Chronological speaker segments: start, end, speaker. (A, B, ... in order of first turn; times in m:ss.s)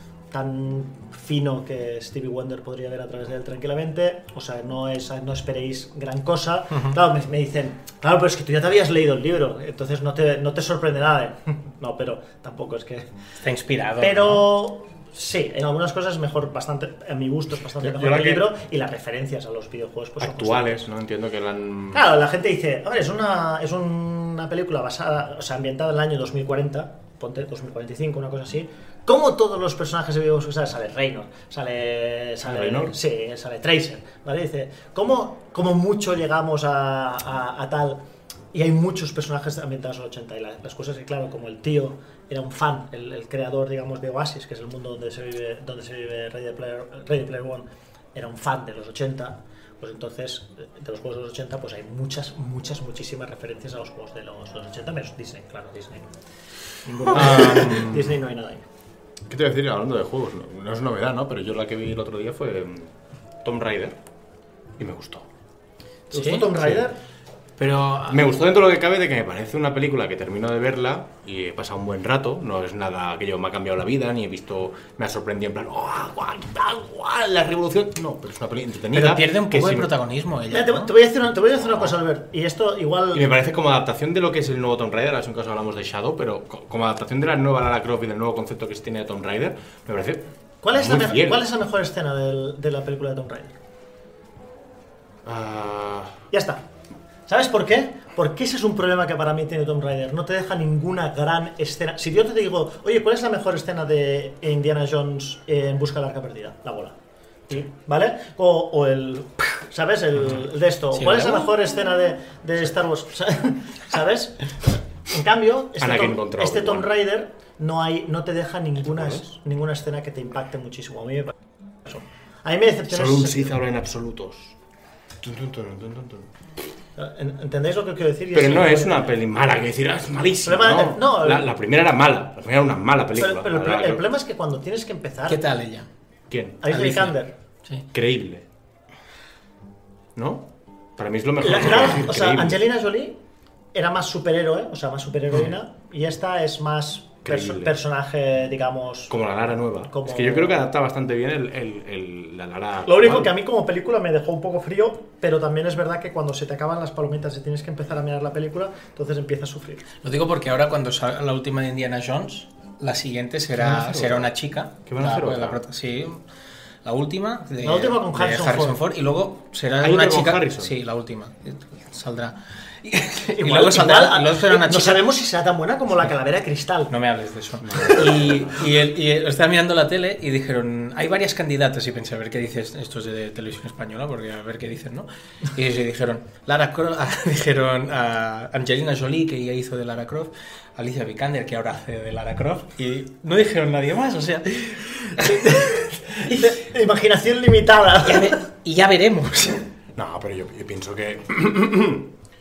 0:00.3-0:13.1 A
0:13.4-0:14.4 B
0:14.0-0:20.8 A
0:17.8-0:18.5 C
0:20.2-0:22.0 C
0:21.9-0:38.0 A
0:32.4-0:33.0 C
0:38.5-0:56.1 A
0:56.9-0:58.0 B
0:56.9-0:58.6 A
0:59.3-1:02.9 C
1:03.4-1:04.0 C
1:04.8-1:05.3 C
1:06.1-1:07.0 A
1:06.1-1:06.5 B
1:06.6-1:06.8 C
1:07.6-1:08.3 B
1:08.1-1:19.9 C
1:18.9-1:20.9 B
1:20.5-1:23.3 A
1:21.6-1:22.0 C
1:23.1-1:31.5 C
1:30.6-1:33.6 A
1:35.2-1:36.2 C
1:36.3-1:36.6 A
1:37.3-1:47.0 A
1:47.5-2:01.3 A
1:50.9-1:51.5 B
1:55.8-1:56.9 C
1:58.9-1:59.2 C
2:01.9-2:03.6 A
2:02.9-2:04.5 C
2:05.2-2:06.3 C
2:07.0-2:09.2 A
2:08.3-2:14.0 C
2:10.4-2:11.5 A
2:13.2-2:15.4 A
2:15.3-2:15.9 B
2:16.3-2:16.6 C
2:16.6-2:17.3 A
2:16.7-2:17.2 B
2:17.9-2:18.5 C
2:20.2-2:22.6 C
2:21.4-2:23.2 A
2:23.7-2:29.1 A
2:27.2-2:27.8 C
2:29.1-2:33.3 C
2:29.9-2:30.6 A
2:32.8-2:39.8 A
2:40.0-2:46.2 B
2:43.6-2:44.3 C
2:44.9-2:45.6 C
2:46.8-2:55.0 B
2:47.6-2:48.8 A
2:49.8-2:50.7 C
2:53.3-2:56.9 A
2:56.9-3:16.6 B
2:57.6-2:58.7 C
3:16.2-3:18.4 A
3:18.0-3:19.7 B
3:20.0-3:22.1 C